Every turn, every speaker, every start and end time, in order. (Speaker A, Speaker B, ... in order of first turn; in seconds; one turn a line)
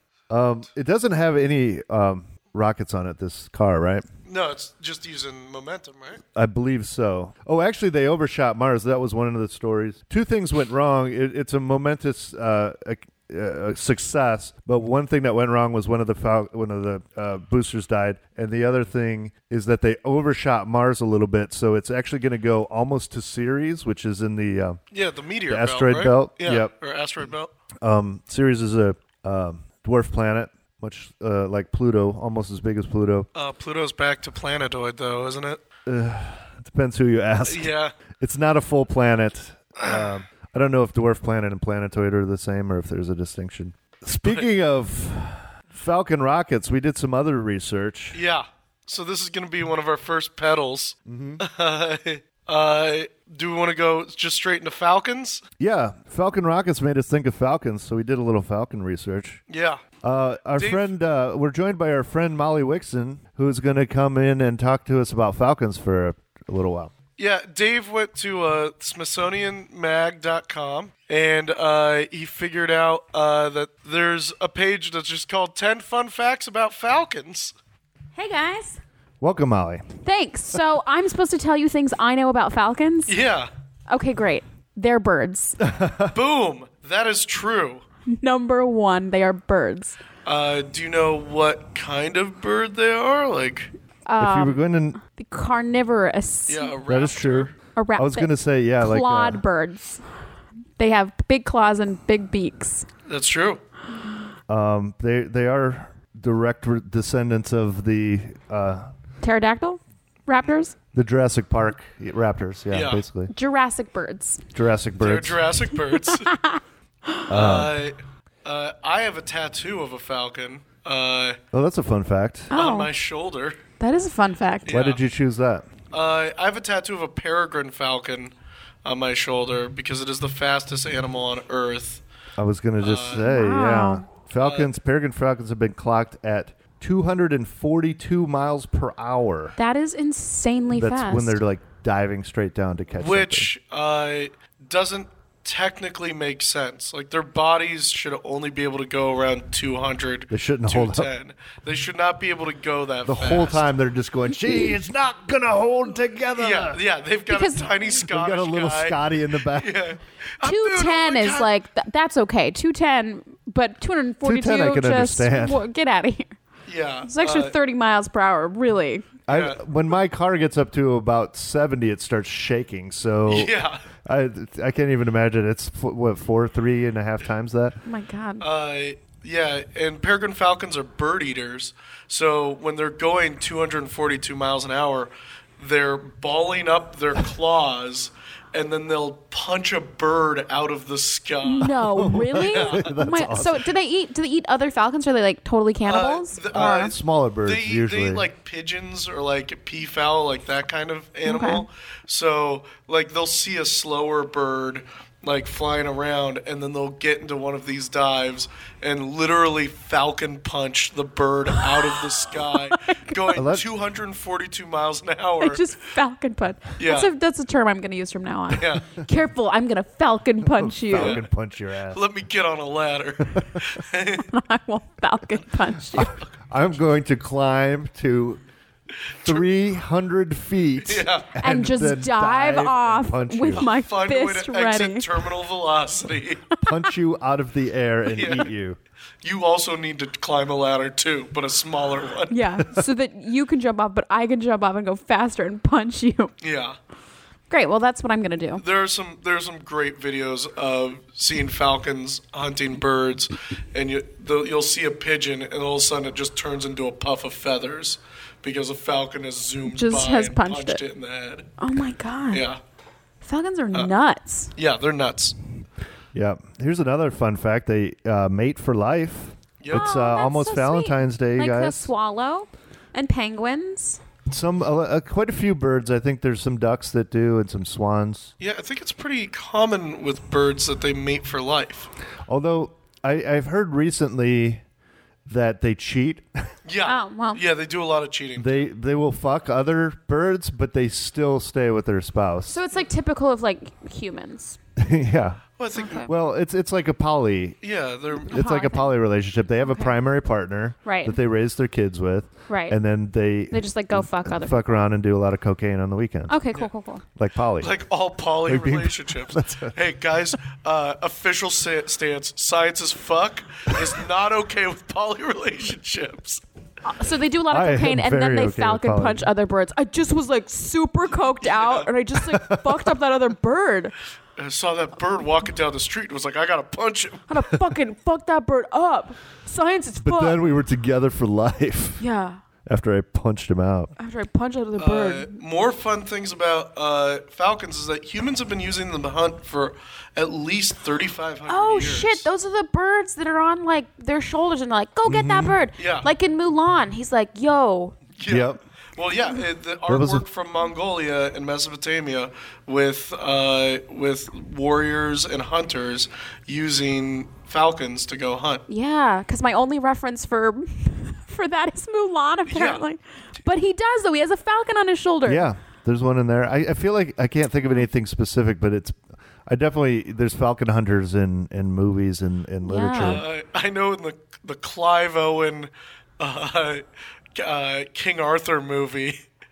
Speaker A: 0.3-4.0
Speaker B: 4.2-6.2
Speaker A: 6.3-24.8
Speaker B: 24.9-27.5
Speaker A: 25.5-26.7
Speaker A: 27.8-33.3
Speaker B: 33.4-35.6
Speaker A: 35.9-48.2
Speaker B: 37.5-37.9
Speaker B: 39.8-40.1
Speaker B: 48.1-55.4
Speaker A: 51.1-51.4
Speaker A: 55.6-59.4
Speaker B: 59.5-59.8
Speaker A: 60.0-66.9
Speaker B: 60.6-60.9
Speaker B: 67.2-77.5
Speaker C: 78.1-78.8
Speaker A: 79.2-79.9
Speaker C: 80.0-83.1
Speaker B: 83.1-83.5
Speaker C: 83.9-85.6
Speaker A: 85.6-86.1
Speaker B: 86.1-87.8
Speaker C: 88.1-90.0
Speaker B: 90.2-93.7
Speaker C: 94.1-96.8
Speaker A: 94.2-95.0
Speaker B: 96.5-97.5
Speaker A: 96.9-99.4
Speaker C: 97.8-100.0
Speaker C: 100.8-102.9
Speaker B: 103.1-103.6
Speaker A: 104.5-108.9
Speaker C: 109.2-110.7
Speaker A: 110.9-113.3
Speaker B: 112.7-113.0
Speaker C: 113.3-114.4
Speaker A: 114.5-115.4
Speaker B: 115.0-116.3
Speaker C: 115.9-117.2
Speaker A: 117.3-117.8
Speaker B: 117.3-121.4
Speaker A: 121.5-122.5
Speaker C: 122.5-122.9
Speaker B: 122.5-123.6
Speaker C: 123.8-124.7
Speaker B: 124.7-125.0
Speaker A: 124.7-125.7
Speaker B: 125.9-128.3
Speaker B: 128.8-132.0
Speaker A: 132.4-139.6
Speaker B: 132.8-133.2
Speaker C: 133.1-134.1
Speaker B: 134.4-134.7
Speaker C: 139.6-141.4
Speaker A: 140.7-143.5
Speaker B: 143.0-153.7
Speaker A: 150.3-151.1
Speaker A: 153.0-156.8
Speaker B: 156.3-161.5
Speaker C: 157.3-157.7
Speaker A: 158.0-159.7
Speaker C: 160.4-166.4
Speaker A: 164.2-165.6
Speaker B: 166.7-167.5
Speaker C: 167.0-169.1
Speaker A: 169.3-177.8
Speaker B: 169.3-169.6
Speaker B: 173.3-173.8
Speaker C: 177.8-178.4
Speaker B: 178.4-191.8
Speaker C: 191.4-196.9
Speaker A: 191.7-193.7
Speaker B: 192.4-192.8
Speaker B: 195.9-215.6
Speaker A: 196.5-198.2
Speaker C: 201.2-201.7
Speaker C: 211.6-213.3
Speaker A: 213.3-213.7
Speaker C: 215.4-221.2
Speaker B: 216.8-217.1
Speaker B: 218.5-218.8
Speaker A: 220.5-222.0
Speaker B: 220.9-221.2
Speaker B: 221.9-224.2
Speaker A: 223.4-223.7
Speaker C: 224.2-226.2
Speaker A: 226.0-228.4
Speaker A: 229.2-233.7
Speaker B: 230.8-231.3
Speaker C: 231.4-235.1
Speaker B: 233.5-236.4
Speaker A: 236.6-238.8
Speaker B: 238.1-238.5
Speaker B: 239.2-242.4
Speaker C: 242.3-246.3
Speaker B: 246.4-246.8
Speaker C: 247.5-248.6
Speaker B: 248.6-261.5
Speaker C: 259.7-260.8
Speaker C: 261.6-262.4
Speaker B: 262.3-262.6
Speaker C: 263.2-264.5
Speaker B: 264.6-265.4
Speaker A: 266.1-271.9
Speaker B: 269.6-269.9
Speaker C: 269.7-274.0
Speaker A: 274.3-278.3
Speaker B: 278.4-281.9
Speaker A: 282.3-284.6
Speaker A: 285.3-286.3
Speaker B: 286.7-288.6
Speaker C: 286.8-287.4
Speaker A: 288.4-292.6
Speaker C: 292.5-294.6
Speaker A: 294.8-295.4
Speaker B: 295.6-296.1
Speaker C: 295.8-296.1
Speaker A: 296.0-297.6
Speaker B: 297.6-298.3
Speaker A: 298.3-306.4
Speaker C: 298.3-298.9
Speaker C: 299.6-300.0
Speaker C: 300.8-301.2
Speaker C: 302.5-302.8
Speaker C: 303.5-304.6
Speaker C: 306.3-307.0
Speaker A: 307.2-307.7
Speaker B: 307.6-316.4
Speaker A: 308.5-309.7
Speaker C: 316.8-324.0
Speaker A: 317.5-319.3
Speaker B: 321.4-321.9
Speaker A: 322.3-322.9
Speaker B: 324.4-327.5
Speaker C: 327.3-330.4
Speaker A: 330.0-332.0
Speaker C: 332.0-332.4
Speaker A: 332.7-333.9
Speaker C: 334.0-335.4
Speaker B: 334.8-342.2
Speaker C: 341.5-348.0
Speaker A: 345.1-345.6
Speaker B: 345.8-346.1
Speaker B: 348.2-358.6
Speaker A: 348.2-348.6
Speaker A: 349.9-350.2
Speaker C: 358.7-365.5
Speaker B: 362.5-362.8
Speaker A: 365.2-373.2
Speaker C: 372.6-373.2
Speaker B: 373.0-376.8
Speaker B: 377.4-379.2